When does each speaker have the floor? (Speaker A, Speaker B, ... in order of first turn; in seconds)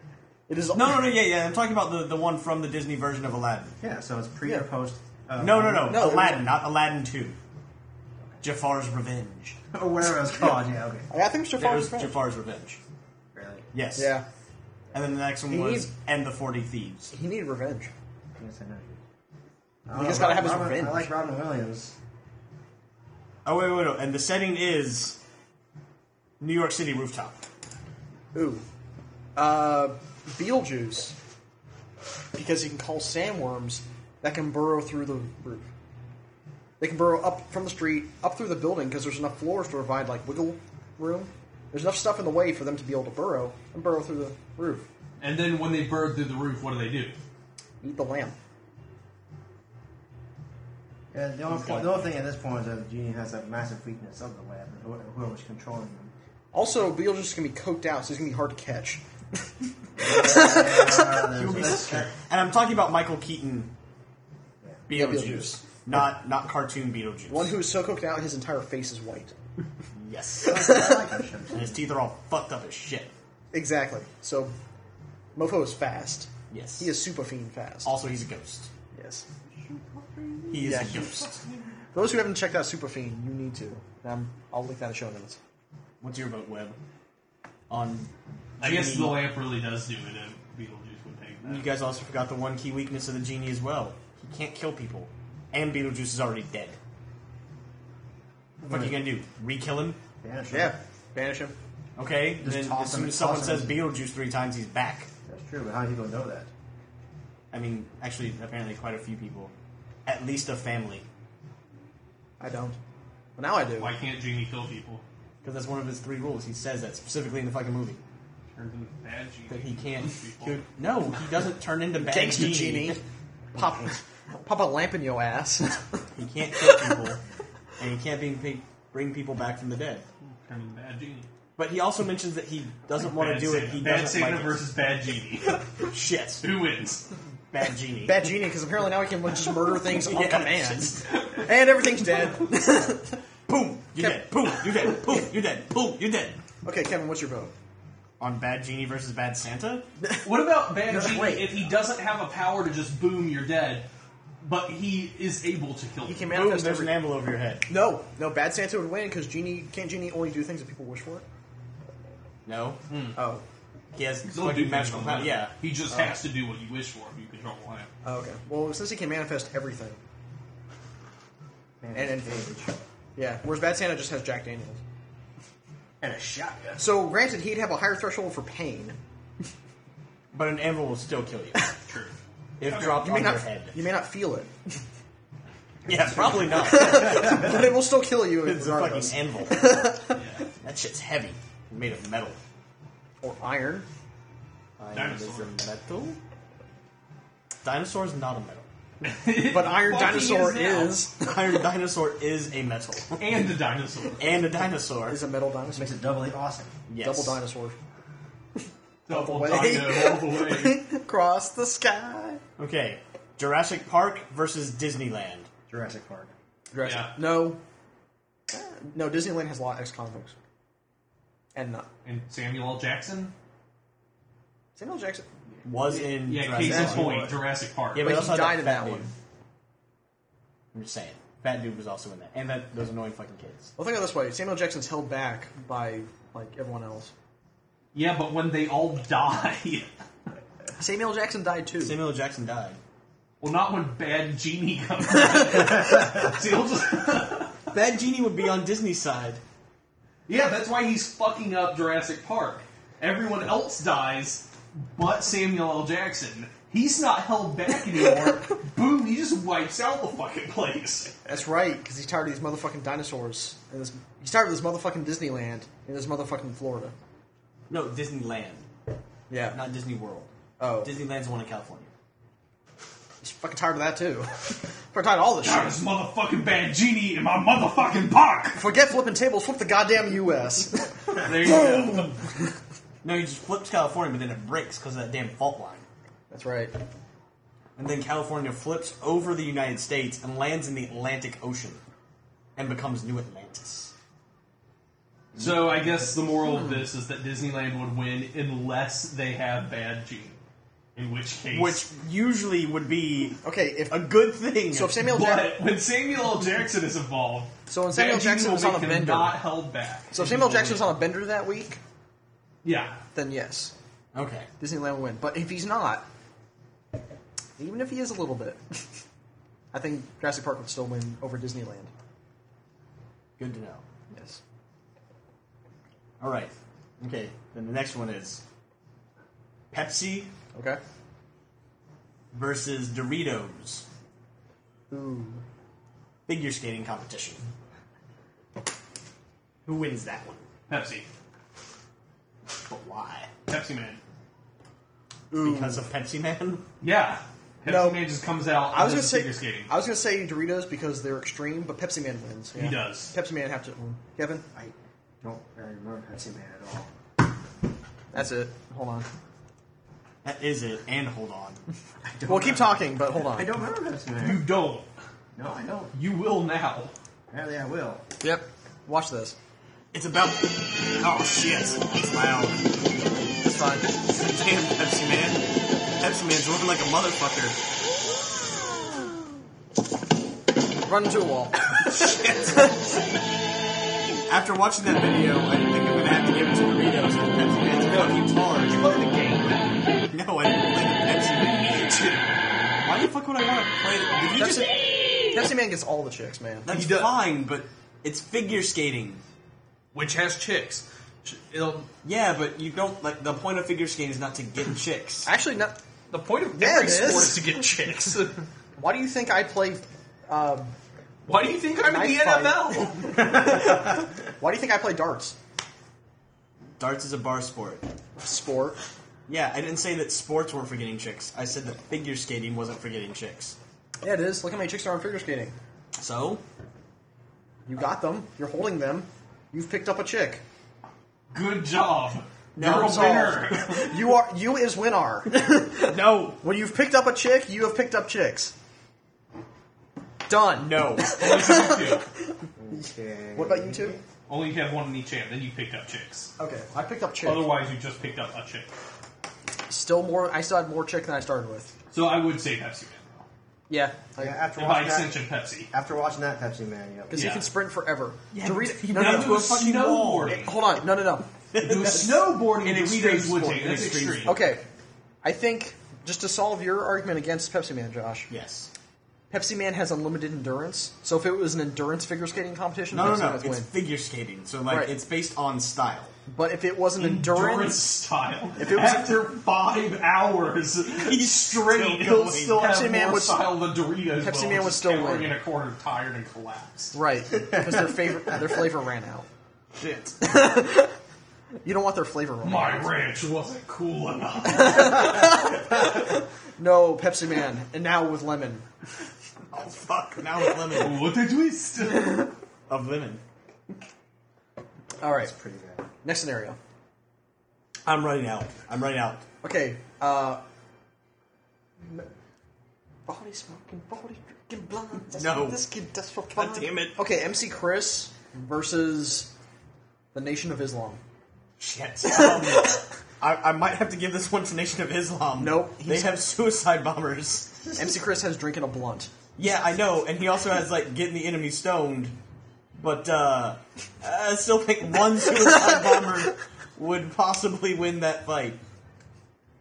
Speaker A: 0.5-1.1, 5.8-6.5, 11.1-12.2, 13.9-14.2, 15.5-15.9, 17.1-17.9, 19.9-21.1, 28.3-28.6, 29.4-31.1, 32.3-35.7, 36.8-44.9, 47.8-48.3, 51.5-52.0, 56.5-59.0, 60.0-61.8, 64.9-65.6, 67.3-69.3, 70.5-71.0, 73.5-74.5, 75.3-77.9, 78.9-79.2, 80.6-81.1, 81.9-85.4, 100.5-101.5, 112.4-112.8, 113.4-113.9, 122.0-123.0, 123.5-126.0, 126.6-126.9, 138.0-143.2, 143.9-144.3, 146.6-147.5, 150.0-151.6, 156.0-157.0, 157.7-161.2, 163.2-163.4, 168.0-170.0, 171.9-172.5, 173.2-174.8, 176.8-179.0, 182.9-184.5, 186.5-190.2, 193.2-193.9, 199.3-201.3, 205.1-205.9, 207.0-207.8, 209.1-212.4, 216.7-217.6, 218.5-220.3, 221.5-221.9, 224.8-225.3, 226.6-227.3, 228.0-229.1, 233.8-237.1, 240.8-242.0, 261.2-266.9, 269.3-269.6, 270.6-270.9, 273.2-275.8, 278.5-282.0, 286.3-286.8, 296.4-296.9, 303.4-304.1, 304.7-305.6, 307.7-309.4, 310.1-311.8, 313.1-313.7, 314.6-316.1, 317.6-318.8, 319.7-321.9, 324.1-324.4, 330.5-330.8, 334.9-335.4, 345.3-345.9, 347.6-348.1, 348.7-354.4, 358.1-359.1, 362.3-363.5, 368.2-369.4, 373.4-373.9, 380.8-382.7, 394.3-394.7, 395.3-396.7, 405.2-405.8, 406.5-407.4, 408.8-410.7, 411.8-415.4, 418.2-418.8, 424.0-425.6, 427.7-430.4, 432.6-438.5, 440.3-444.0, 446.4-447.5, 449.7-451.7, 453.7-454.4, 457.1-459.5, 460.3-461.3, 464.2-464.6, 465.2-468.3, 469.3-473.7, 474.7-474.9, 476.3-477.9, 478.6-479.2, 482.6-483.5, 484.2-485.4, 486.9-489.3, 490.2-490.9, 491.6-493.0, 494.4-498.6, 505.0-505.3, 506.0-506.6, 509.4-510.4, 513.0-519.3, 520.1-521.0, 522.0-522.8, 525.4-526.2, 527.8-529.1, 535.5-535.7
Speaker B: 0.7-3.8, 5.4-7.4, 8.4-9.6, 11.6-12.8, 13.7-14.1, 14.9-17.1, 23.4-25.2, 26.4-27.4, 61.3-63.7, 64.9-67.6, 69.9-70.8, 71.5-73.1, 76.5-76.9, 77.8-78.7, 80.5-81.4, 86.0-86.8, 87.7-89.2, 91.4-96.8, 98.6-100.0, 102.0-105.1, 107.5-109.5, 110.0-111.0, 115.4-118.0, 119.5-123.0, 126.1-127.2, 127.8-130.0, 131.6-134.6, 135.8-136.5, 137.5-138.4, 139.8-141.1, 142.5-142.9, 143.5-146.4, 148.2-149.9, 156.3-157.7, 162.4-162.8, 163.9-165.5, 180.3-181.6, 182.6-183.8, 185.8-189.9, 190.6-192.4, 194.8-196.2, 197.6-198.7, 201.2-203.5, 204.2-205.2, 206.9-207.4, 212.6-215.5, 225.6-227.3, 227.9-229.1, 230.7-233.7, 241.8-242.8, 247.7-249.4, 267.7-268.6, 269.5-271.9, 283.0-285.8, 287.8-291.8, 292.6-293.9, 295.3-296.0, 301.5-305.0, 314.1-314.5, 323.4-323.8, 326.2-328.4, 329.7-330.3, 332.3-333.9, 336.3-337.4, 339.6-340.4, 342.6-343.3, 345.4-346.6, 360.2-361.6, 369.9-372.8, 374.0-377.6, 381.9-382.5, 384.3-389.0, 390.0-391.9, 392.8-394.8, 396.6-399.2, 402.0-405.3, 416.8-417.9, 419.3-423.6, 426.0-426.4, 432.6-433.7, 435.8-436.4, 440.5-441.2, 458.3-460.5, 461.5-464.4, 468.3-468.7, 472.9-476.1, 480.9-482.7, 489.7-490.4, 499.5-501.1, 502.7-503.2, 507.8-509.2, 515.1-515.6, 516.3-517.0, 521.6-527.8, 529.4-532.1, 532.8-538.6
Speaker C: 3.8-6.3, 9.7-11.1, 13.3-13.7, 18.4-19.0, 19.9-21.9, 51.1-56.1, 60.0-62.1, 70.4-71.8, 98.6-99.0, 100.2-100.8, 102.4-103.8, 105.2-106.5, 171.8-172.8, 176.0-176.8, 205.7-206.7, 215.7-216.3, 354.5-356.9, 362.0-364.5, 365.4-365.9, 367.3-368.0, 442.6-444.0, 454.2-457.2, 505.1-505.8
Speaker D: 45.2-47.2, 80.0-81.6, 88.6-91.7, 113.8-115.0, 118.5-120.6, 130.4-131.3, 133.1-135.6, 136.4-137.1, 141.1-141.4, 150.2-153.8, 154.4-156.3, 162.9-163.2, 164.3-167.9, 181.9-183.0, 190.1-190.4, 194.9-195.5, 199.0-201.1, 203.2-204.4, 209.1-210.8, 216.8-217.2, 222.0-223.3, 225.9-228.1, 237.9-239.9, 243.4-247.7, 250.3-261.1, 275.4-278.6, 281.1-282.2, 295.3-300.4, 300.9-301.8, 305.0-310.9, 312.6-313.0, 340.7-341.1, 343.5-344.0, 346.8-349.7, 352.5-353.1, 364.2-364.9, 365.9-366.9, 387.9-389.9, 391.6-392.4, 396.7-397.2, 399.9-401.9, 406.1-408.4, 411.2-413.3, 431.3-433.9, 441.1-442.1, 444.3-446.3, 447.2-448.7, 451.9-453.2, 454.6-455.7, 457.1-457.5, 458.9-460.5, 461.6-464.4, 477.0-486.9, 492.4-495.4, 500.7-502.3